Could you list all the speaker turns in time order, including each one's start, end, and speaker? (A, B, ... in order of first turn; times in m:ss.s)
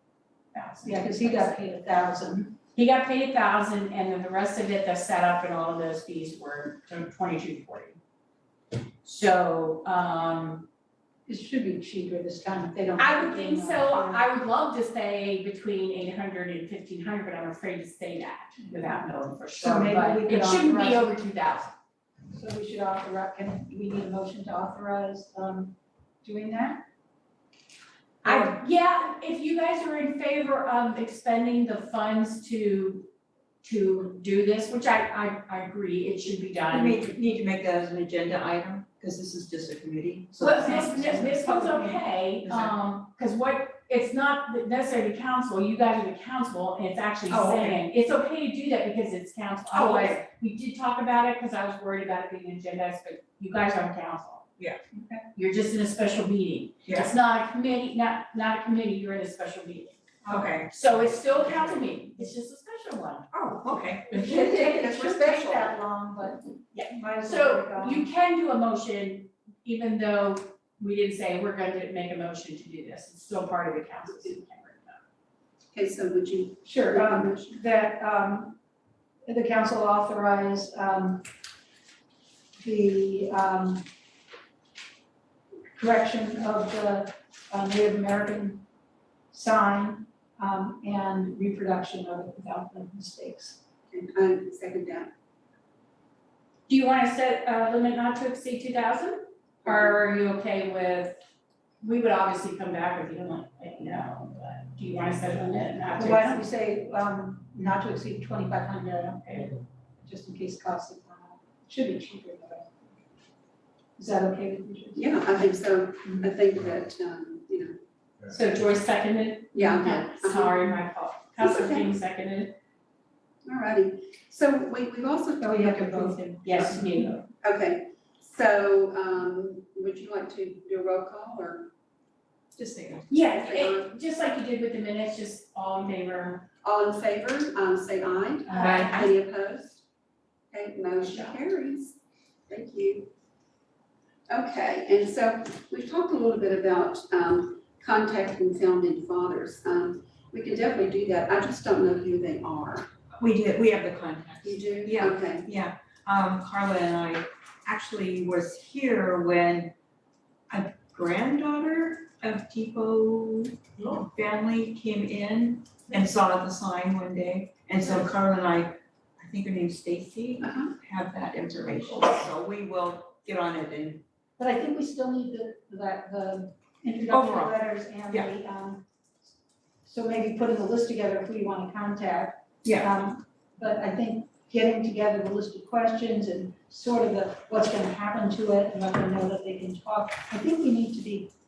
0:00.5-0:01.6 A
0:00.8-0:02.5 B
0:02.7-0:08.0 A
0:09.0-0:10.7 A
0:11.2-0:14.2 B
0:13.0-0:21.7 A
0:19.6-0:21.1 B
0:22.3-0:26.8 B
0:28.2-0:33.1 A
0:33.6-0:37.0 A
0:36.7-0:41.8 C
0:40.4-0:54.5 A
0:40.6-0:42.0 B
0:42.4-0:42.7 C
0:47.3-0:47.8 C
0:49.7-0:50.2 C
0:54.9-0:55.2 B
0:55.3-1:00.0 A
0:56.8-0:57.1 C
1:00.2-1:00.6 B
1:00.3-1:00.7 C
1:00.7-1:03.3 A
1:03.3-1:04.8 C
1:04.1-1:08.1 B
1:04.5-1:05.7 D
1:06.7-1:15.0 A
1:15.7-1:17.6 D
1:16.6-1:18.6 B
1:19.2-1:21.3 B
1:22.6-1:23.9 B
1:25.7-1:28.6 B
1:29.3-1:33.6 B
1:33.9-1:35.1 D
1:36.7-1:41.2 A
1:39.6-1:39.9 D
1:41.8-1:46.4 A
1:46.0-1:49.4 B
1:49.2-1:49.5 A
1:50.0-1:53.0 B
1:54.0-1:55.4 B
1:54.9-1:57.8 D
1:56.0-1:56.3 B
1:58.3-2:02.6 A
1:59.5-2:00.7 D
2:01.4-2:01.9 D
2:03.4-2:06.8 D
2:05.4-2:07.2 B
2:06.4-2:07.2 A
2:07.4-2:11.7 D
2:12.6-2:13.2 C
2:13.1-2:16.4 A
2:13.2-2:13.9 D
2:16.6-2:19.8 D
2:18.5-2:19.1 A
2:20.5-2:22.0 D
2:21.0-2:21.4 A
2:22.5-2:23.1 D
2:24.3-2:32.9 D
2:33.2-2:39.7 C
2:34.4-2:35.5 D
2:40.5-2:54.0 C
2:50.4-2:50.7 D
2:54.4-2:59.3 B
2:57.1-2:57.5 C
2:59.8-3:11.3 B
3:02.6-3:02.9 C